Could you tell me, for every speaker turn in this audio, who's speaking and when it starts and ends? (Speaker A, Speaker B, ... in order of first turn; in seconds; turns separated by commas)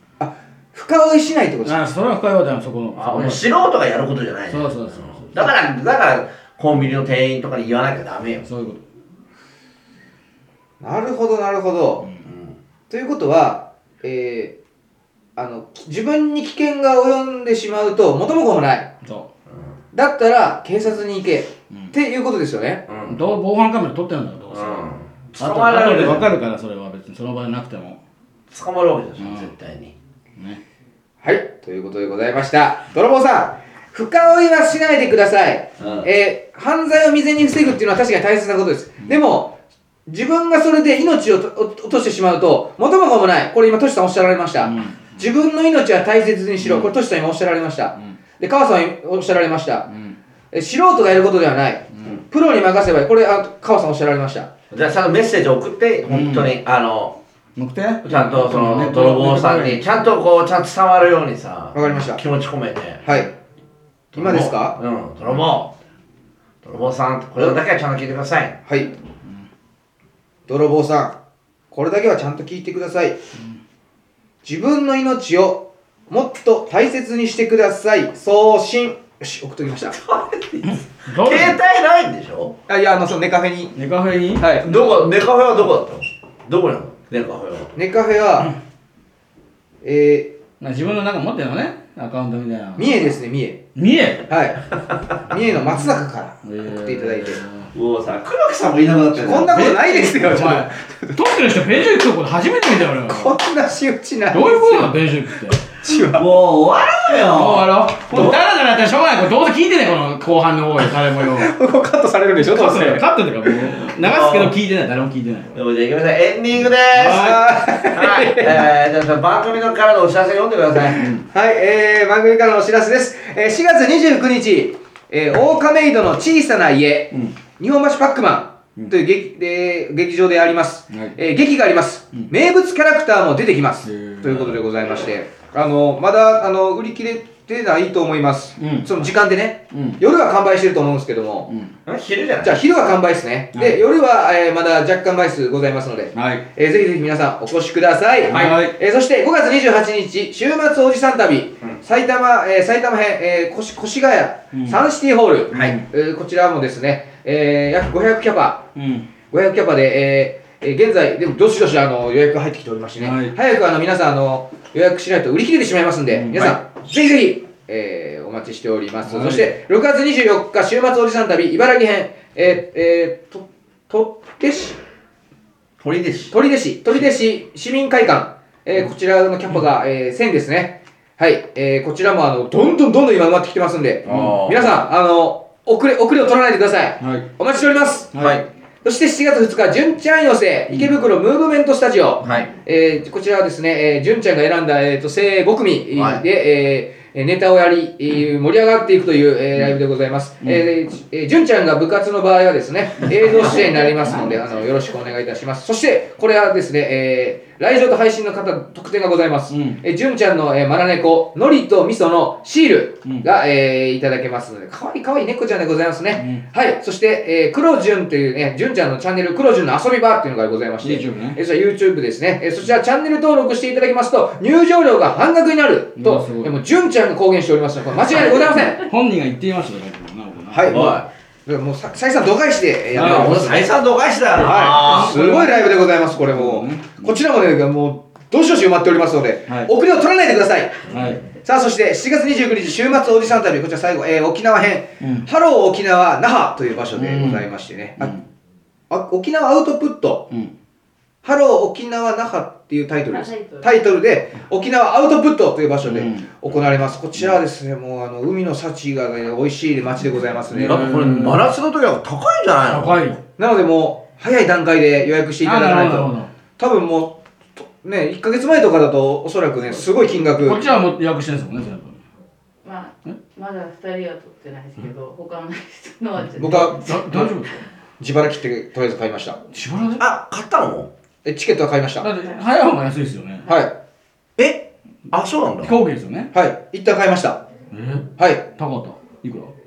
Speaker A: 0.2-1.8, Speaker B: 1.6-3.5, Speaker C: 3.0-8.4, Speaker B: 4.5-5.5, Speaker B: 8.4-8.8, Speaker A: 10.8-12.1, Speaker C: 12.2-12.6, Speaker A: 12.9-14.5, Speaker A: 15.3-18.9, Speaker B: 19.0-19.3, Speaker A: 19.9-22.8, Speaker C: 22.9-23.2, Speaker B: 23.1-24.9, Speaker C: 24.5-26.3, Speaker B: 25.4-28.0, Speaker C: 28.5-29.9, Speaker B: 29.2-29.5, Speaker A: 31.2-39.5, Speaker C: 35.8-36.1, Speaker A: 40.1-49.9, Speaker B: 44.6-45.2, Speaker B: 46.6-46.9, Speaker B: 49.9-50.2, Speaker A: 50.5-54.5, Speaker C: 54.7-57.2, Speaker B: 56.1-56.5, Speaker B: 57.5-59.8, Speaker C: 58.0-63.1, Speaker A: 61.7-62.2, Speaker A: 63.0-63.3, Speaker A: 64.1-64.8, Speaker C: 64.1-65.7, Speaker C: 66.6-68.6, Speaker A: 68.7-68.9, Speaker A: 70.5-71.2, Speaker A: 71.7-73.2, Speaker A: 74.4-80.0, Speaker C: 79.9-82.6, Speaker B: 80.6-81.6, Speaker A: 82.7-83.7, Speaker B: 83.7-84.5, Speaker A: 84.3-84.7, Speaker C: 84.6-87.7, Speaker A: 87.8-88.5, Speaker A: 89.8-90.4, Speaker B: 90.6-93.2, Speaker A: 92.8-93.6, Speaker B: 93.7-94.3, Speaker A: 94.3-94.7, Speaker A: 95.3-97.4, Speaker B: 95.6-95.8, Speaker B: 96.4-97.7, Speaker C: 97.7-99.7, Speaker A: 99.1-101.2, Speaker B: 99.5-103.3, Speaker A: 103.1-106.3, Speaker B: 104.3-105.6, Speaker C: 106.1-108.4, Speaker B: 107.2-111.5, Speaker A: 111.2-113.1, Speaker B: 112.4-115.6, Speaker C: 114.0-114.5, Speaker C: 115.5-121.1, Speaker B: 117.0-117.5, Speaker A: 117.0-118.6, Speaker B: 121.0-121.2, Speaker A: 121.3-141.5, Speaker B: 130.9-131.2, Speaker B: 133.8-134.6, Speaker B: 138.6-139.1, Speaker B: 139.7-140.0, Speaker C: 141.8-142.6, Speaker A: 142.4-158.7, Speaker B: 143.5-143.8, Speaker B: 146.1-146.4, Speaker B: 148.3-148.8, Speaker C: 148.3-148.6, Speaker B: 154.5-154.8, Speaker C: 155.5-155.8, Speaker B: 155.5-155.8, Speaker B: 158.7-159.1, Speaker A: 159.3-174.8, Speaker B: 163.0-163.3, Speaker B: 166.1-166.6, Speaker B: 169.1-169.5, Speaker C: 175.8-176.4, Speaker A: 176.3-188.2, Speaker B: 184.0-184.4, Speaker C: 184.1-184.7, Speaker B: 187.0-187.3, Speaker B: 188.1-188.4, Speaker C: 188.2-188.4, Speaker A: 188.8-228.8, Speaker C: 192.2-192.5, Speaker C: 195.9-196.2, Speaker B: 200.4-200.7, Speaker D: 203.5-205.1, Speaker B: 203.9-204.4, Speaker B: 209.5-209.8, Speaker B: 216.1-216.4, Speaker B: 220.8-221.4, Speaker B: 226.0-226.6, Speaker B: 228.2-231.0, Speaker A: 230.5-233.8, Speaker C: 230.7-231.1, Speaker C: 232.9-235.2, Speaker B: 232.9-233.3, Speaker A: 234.4-248.1, Speaker B: 234.5-237.2, Speaker C: 240.8-241.2, Speaker B: 240.9-241.2, Speaker B: 245.0-245.3, Speaker B: 246.9-247.4, Speaker B: 248.0-248.2, Speaker A: 248.9-250.3, Speaker A: 251.2-260.9, Speaker D: 253.1-253.8, Speaker B: 255.8-256.3, Speaker B: 260.5-261.4, Speaker C: 260.5-263.0, Speaker B: 262.6-263.2, Speaker A: 263.4-270.6, Speaker B: 265.4-266.3, Speaker B: 270.4-272.0, Speaker D: 272.6-276.9, Speaker A: 276.4-277.4, Speaker B: 276.4-277.6, Speaker A: 278.0-279.4, Speaker B: 279.5-280.1, Speaker C: 280.0-280.9, Speaker A: 281.2-282.1, Speaker B: 282.0-283.5, Speaker A: 283.4-283.7, Speaker C: 285.1-285.7, Speaker B: 285.6-286.3, Speaker A: 286.3-287.4, Speaker B: 287.7-289.5, Speaker A: 288.2-288.4